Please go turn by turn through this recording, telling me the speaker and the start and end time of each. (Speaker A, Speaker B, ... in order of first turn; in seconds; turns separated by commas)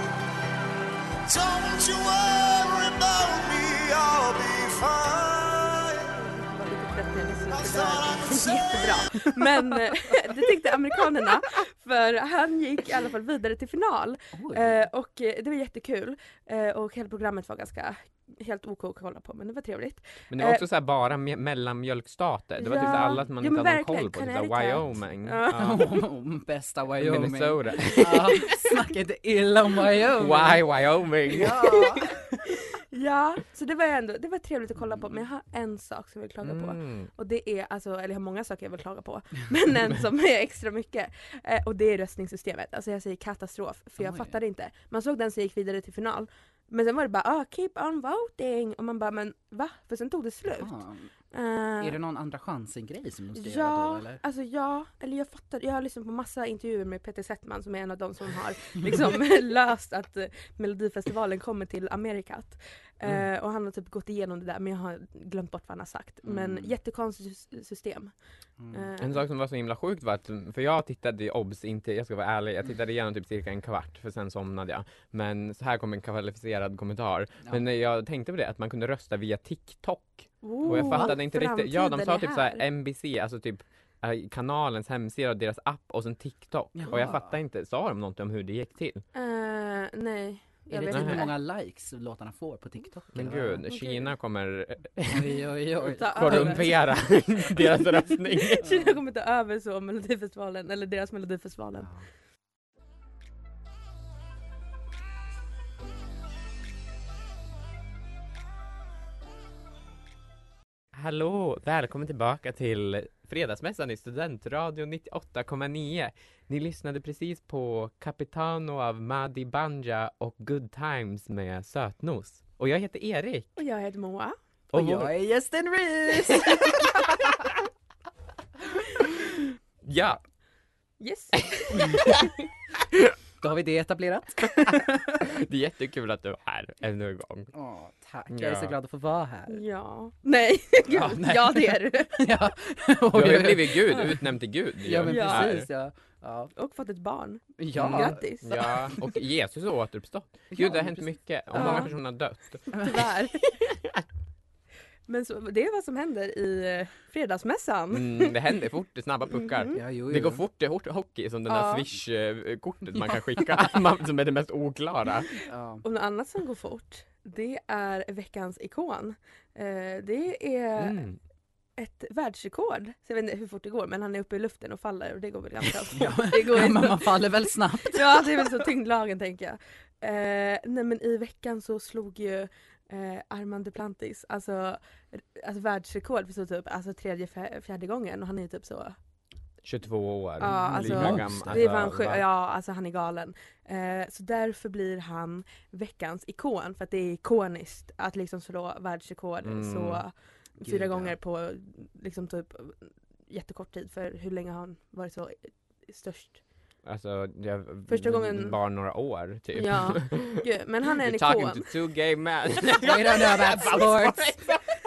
Speaker A: 1.3-6.0, Speaker B: 6.2-20.6, Speaker A: 7.5-9.3, Speaker C: 14.3-14.9, Speaker D: 20.3-26.0, Speaker B: 22.6-25.9, Speaker C: 22.8-23.2, Speaker C: 25.5-30.6, Speaker D: 27.0-28.5, Speaker D: 30.1-31.7, Speaker C: 31.3-32.4, Speaker B: 31.7-50.8, Speaker C: 34.8-35.2, Speaker D: 36.4-37.1, Speaker C: 44.0-44.4, Speaker C: 50.6-51.1, Speaker B: 51.3-52.0, Speaker C: 51.8-54.2, Speaker B: 53.4-68.1, Speaker C: 66.2-66.7, Speaker C: 68.6-68.9, Speaker B: 68.7-69.2, Speaker D: 69.0-89.0, Speaker B: 80.4-82.6, Speaker C: 80.6-81.2, Speaker C: 86.8-87.3, Speaker B: 89.1-91.3, Speaker C: 90.7-93.7, Speaker D: 90.9-91.2, Speaker D: 93.1-95.4, Speaker B: 93.7-94.1, Speaker C: 95.1-96.7, Speaker B: 95.9-96.9, Speaker D: 96.1-98.8, Speaker B: 98.0-101.9, Speaker C: 101.8-102.1, Speaker D: 110.9-123.5, Speaker B: 123.6-124.3, Speaker C: 124.7-127.5, Speaker D: 124.7-125.1, Speaker D: 129.8-130.2, Speaker B: 131.0-132.2, Speaker D: 131.7-132.2, Speaker C: 133.4-135.3, Speaker D: 134.6-137.5, Speaker C: 137.5-139.6, Speaker D: 138.3-138.8, Speaker B: 139.5-142.2, Speaker C: 140.9-144.3, Speaker D: 143.1-145.7, Speaker C: 144.8-146.5, Speaker B: 145.1-145.5, Speaker B: 146.6-148.7, Speaker C: 147.6-148.2, Speaker D: 147.8-152.8, Speaker C: 150.5-151.9, Speaker B: 151.6-151.9, Speaker B: 152.7-153.6, Speaker C: 152.7-153.0, Speaker D: 153.7-154.0, Speaker B: 155.1-158.3, Speaker D: 157.9-165.3, Speaker B: 159.4-159.8, Speaker C: 159.7-160.4, Speaker B: 161.5-161.8, Speaker C: 163.1-163.5, Speaker C: 165.4-165.8, Speaker B: 165.8-171.0, Speaker D: 170.8-171.2, Speaker B: 171.8-189.0, Speaker C: 175.9-178.7, Speaker D: 189.6-192.2, Speaker B: 190.4-206.4, Speaker C: 190.4-191.7, Speaker D: 199.4-200.0, Speaker C: 200.6-201.2, Speaker D: 206.9-210.4, Speaker B: 207.9-208.6, Speaker B: 209.6-211.7, Speaker D: 210.9-214.8, Speaker C: 212.8-214.5